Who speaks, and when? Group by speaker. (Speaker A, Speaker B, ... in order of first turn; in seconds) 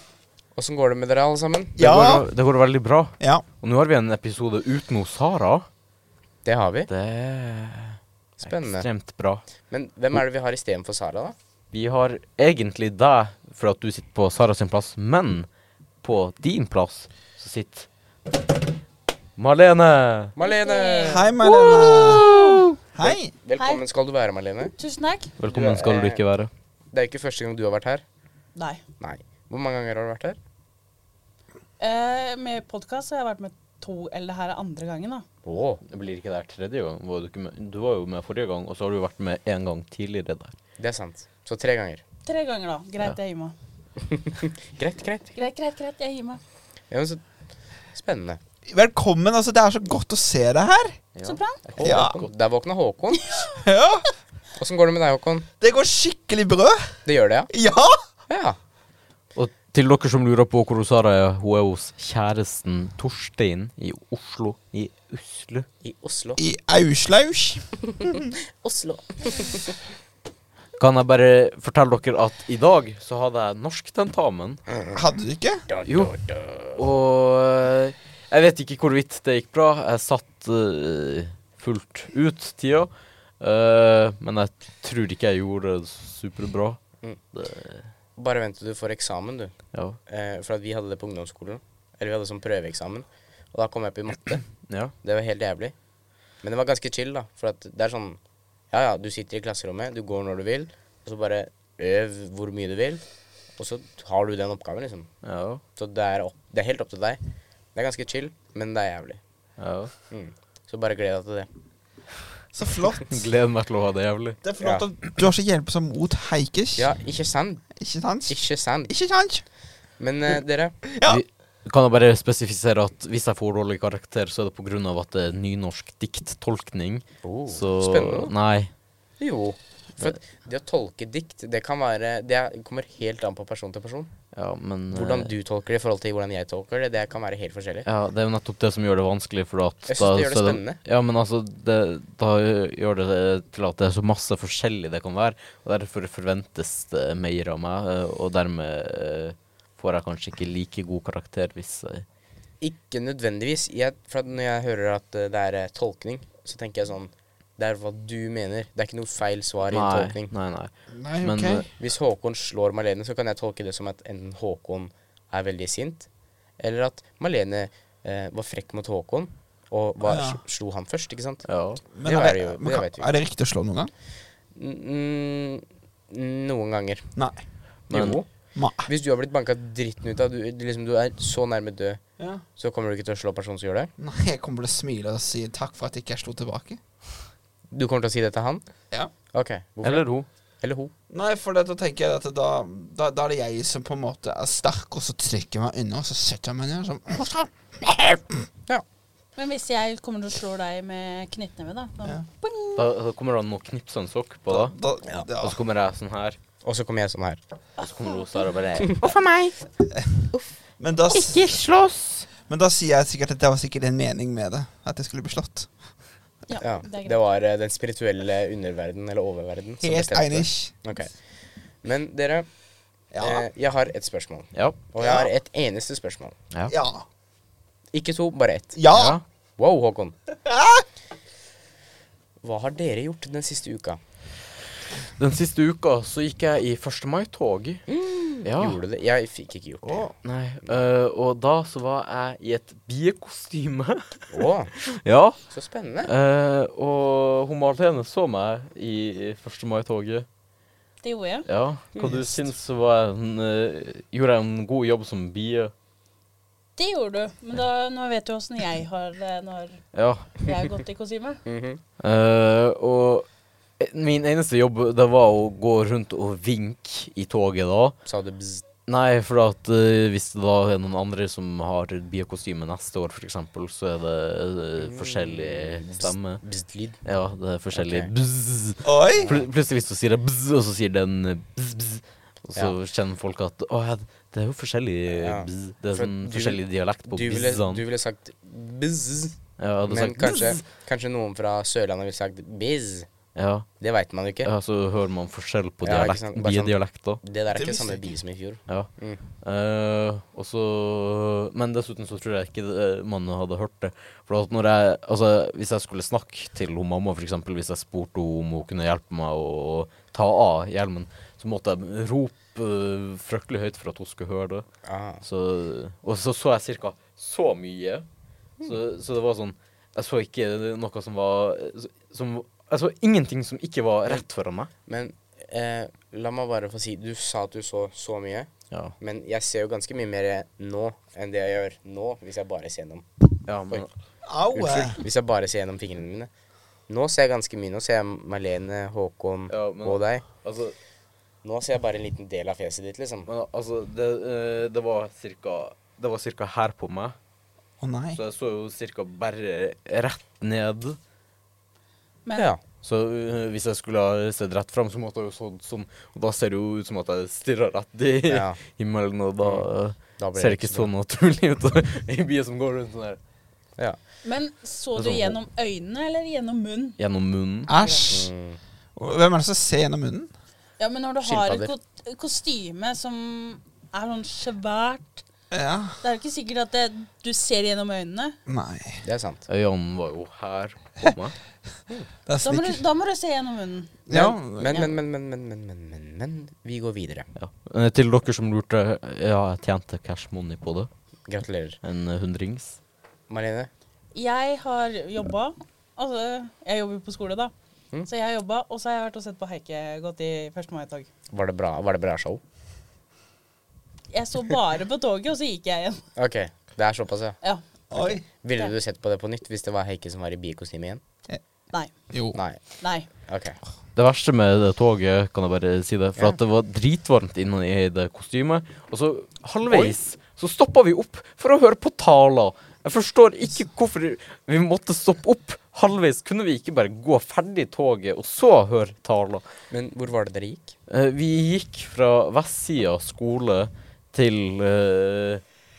Speaker A: 0.6-1.8, 6.5-6.9, 8.4-8.9, 9.7-11.4, 20.4-21.3, 23.0-24.7, 25.5-26.2, 26.9-28.0, 29.0-30.4, 35.4-35.8, 40.8-42.0, 44.1-45.3, 46.9-47.2, 47.9-48.4, 51.7-53.3, 54.5-55.5, 57.0-57.5, 58.3-58.6, 65.8-66.4, 68.0-69.7, 74.7-75.0, 75.7-76.8, 88.2-89.5, 90.1-94.5, 95.0-95.8, 96.4-98.2, 98.7-103.0, 103.6-105.1, 105.8-107.2, 107.7-109.2, 110.1-111.5, 116.8-117.6, 118.3-118.9, 120.0-120.8, 127.2-128.3, 129.2-134.1, 134.9-137.9, 139.9-140.8, 152.6-160.3, 161.8-166.1, 166.6-171.5, 172.0-173.1, 174.6-177.1, 177.9-178.3, 178.8-182.0, 182.6-183.9, 187.7-188.7, 189.3-190.1, 190.6-190.9, 206.6-207.4, 208.8-209.5, 216.6-221.2, 221.8-222.5, 223.2-226.3, 227.9-228.8, 229.6-230.2, 232.4-234.0, 237.9-240.1, 244.3-244.7, 245.5-246.1, 251.9-252.2, 261.4-261.8, 268.1-268.6, 274.8-277.0, 277.7-278.1, 285.1-293.1, 293.8-294.5, 295.8-299.2, 314.9-315.2, 324.9-333.1, 334.5-336.3, 336.9-340.2, 341.4-343.3, 352.4-352.6, 358.3-358.6, 359.4-360.9, 367.8-368.6, 371.2-371.7, 379.0-379.5, 384.1-387.3, 391.3-391.8, 393.3-393.7, 401.3-402.4, 406.1-407.4, 408.3-411.0, 412.3-412.6, 413.1-413.6, 419.7-419.9, 429.7-430.8
Speaker B: 1.8-2.3, 21.1-22.3, 22.9-23.3, 48.7-51.0, 51.8-52.2, 53.5-54.1, 55.6-57.0, 57.5-58.0, 66.4-68.3, 74.9-75.7, 112.5-113.2, 114.4-116.9, 117.8-119.4, 120.8-121.2, 160.9-161.7, 170.1-170.4, 171.9-173.9, 178.6-178.9, 182.2-182.4, 184.0-186.8, 191.1-198.4, 204.5-205.6, 209.9-211.6, 212.4-215.7, 219.8-220.8, 223.1-223.5, 225.0-225.3, 226.7-227.1, 228.7-229.2, 230.4-230.8, 239.8-240.1, 278.8-279.3, 297.5-298.0, 334.2-335.0, 347.8-348.2, 367.7-368.3, 369.0-370.3, 375.5-376.0, 378.5-379.0, 382.3-382.8, 384.1-384.9, 407.9-408.2, 412.1-412.4
Speaker C: 1.8-5.7, 6.9-9.4, 11.7-15.5, 16.0-17.9, 19.4-20.3, 21.8-22.7, 25.4-26.5, 35.9-40.5, 51.1-52.3, 59.4-65.7, 70.8-74.6, 75.9-86.8, 87.3-87.9, 89.7-90.0, 105.2-105.6, 109.6-109.9, 113.1-114.4, 121.0-128.7, 134.3-135.3, 137.8-152.1, 159.7-161.7, 171.4-171.8, 177.9-178.2, 189.8-190.3, 202.8-204.7, 205.4-206.4, 207.8-209.4, 211.3-212.2, 228.9-229.2, 235.2-237.8, 238.4-238.8, 240.2-245.4, 246.0-250.3, 251.5-255.7, 259.9-260.3, 262.0-263.3, 263.8-268.0, 268.9-276.4, 277.0-287.8, 289.6-290.6, 293.4-293.7, 294.4-297.2, 298.7-314.7, 315.2-318.1, 318.6-324.7, 333.4-333.9, 339.5-340.8, 343.3-347.2, 348.1-351.0, 352.8-363.2, 364.9-365.4, 367.0-367.7, 379.5-381.4, 387.4-390.9, 391.8-392.8, 414.0-429.4, 430.9-435.4
Speaker D: 20.4-22.6, 23.6-23.8, 24.8-25.3, 28.6-28.8, 31.8-35.2, 42.3-43.5, 45.4-46.4, 51.2-51.6, 199.4-202.8, 208.1-208.4, 216.5-217.2, 251.0-251.5, 256.8-259.8, 260.4-261.4, 352.2-352.5, 364.2-367.0, 370.8-375.2, 376.0-378.4, 382.4-384.0, 394.1-397.5, 398.1-401.1, 404.1-406.0, 407.4-408.7, 412.8-413.1